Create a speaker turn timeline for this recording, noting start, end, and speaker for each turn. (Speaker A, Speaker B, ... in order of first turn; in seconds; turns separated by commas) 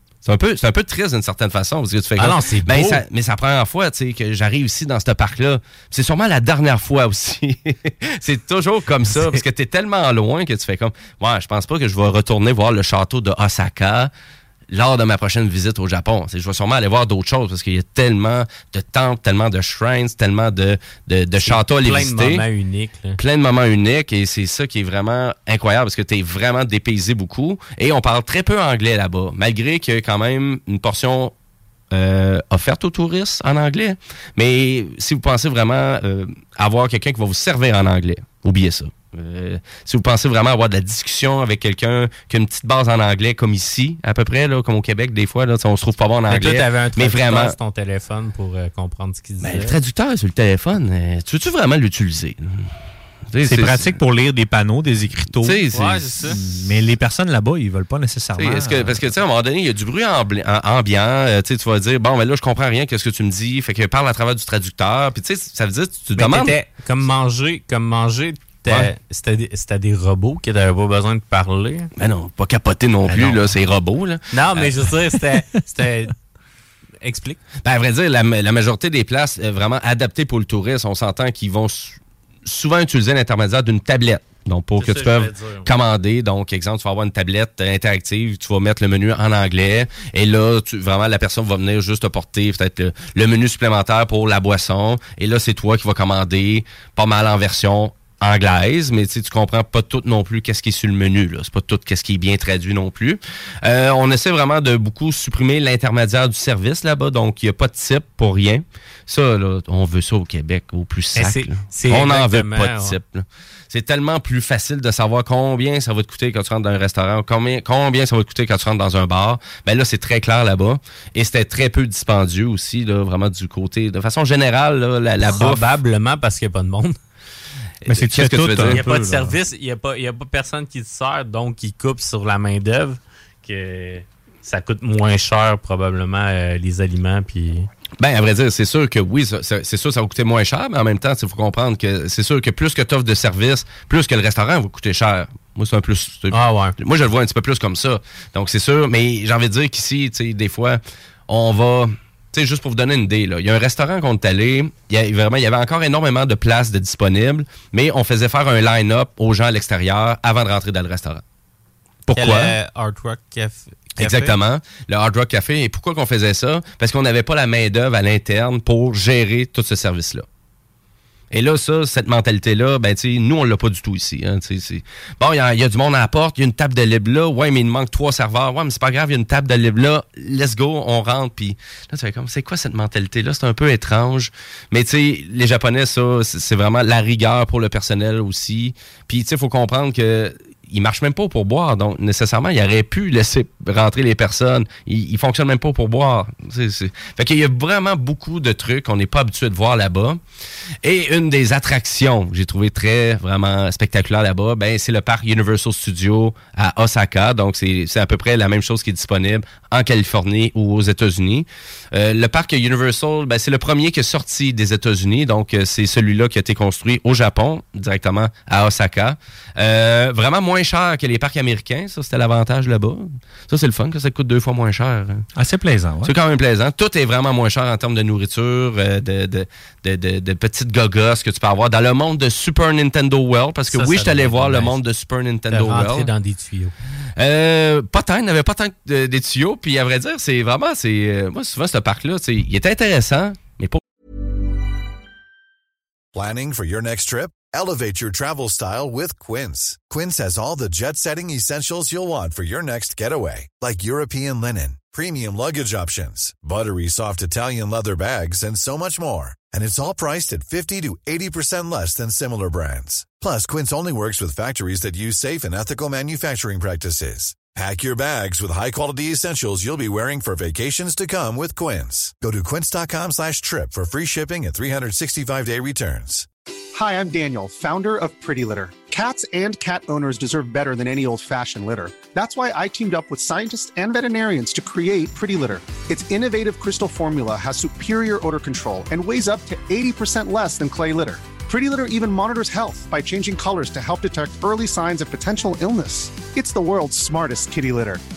Speaker A: 0.2-14.1, Speaker B: 2.2-3.0, Speaker B: 9.1-9.4, Speaker A: 14.7-22.4, Speaker B: 21.4-23.2, Speaker A: 23.2-31.3, Speaker A: 31.9-47.5, Speaker B: 46.3-49.8, Speaker A: 49.4-52.7, Speaker A: 53.3-54.0, Speaker C: 53.4-55.6, Speaker A: 55.4-56.0, Speaker B: 55.7-56.4, Speaker C: 56.3-59.1, Speaker A: 58.4-66.6, Speaker B: 66.2-71.9, Speaker A: 72.0-74.9, Speaker B: 73.1-73.4, Speaker B: 74.3-76.1, Speaker B: 77.0-77.4, Speaker A: 77.6-125.7, Speaker B: 84.8-85.7, Speaker B: 111.2-112.9, Speaker B: 125.2-127.0, Speaker A: 127.9-128.8, Speaker C: 127.9-129.4, Speaker B: 128.6-137.7, Speaker A: 138.0-161.2, Speaker B: 146.3-146.7, Speaker A: 162.1-162.5, Speaker B: 162.2-164.3, Speaker A: 164.0-170.2, Speaker A: 171.3-200.2, Speaker A: 200.8-225.3, Speaker C: 225.4-226.1, Speaker A: 226.0-236.1, Speaker B: 233.7-234.8, Speaker B: 235.5-236.7, Speaker A: 237.2-243.8, Speaker D: 246.1-276.3, Speaker E: 276.7-298.0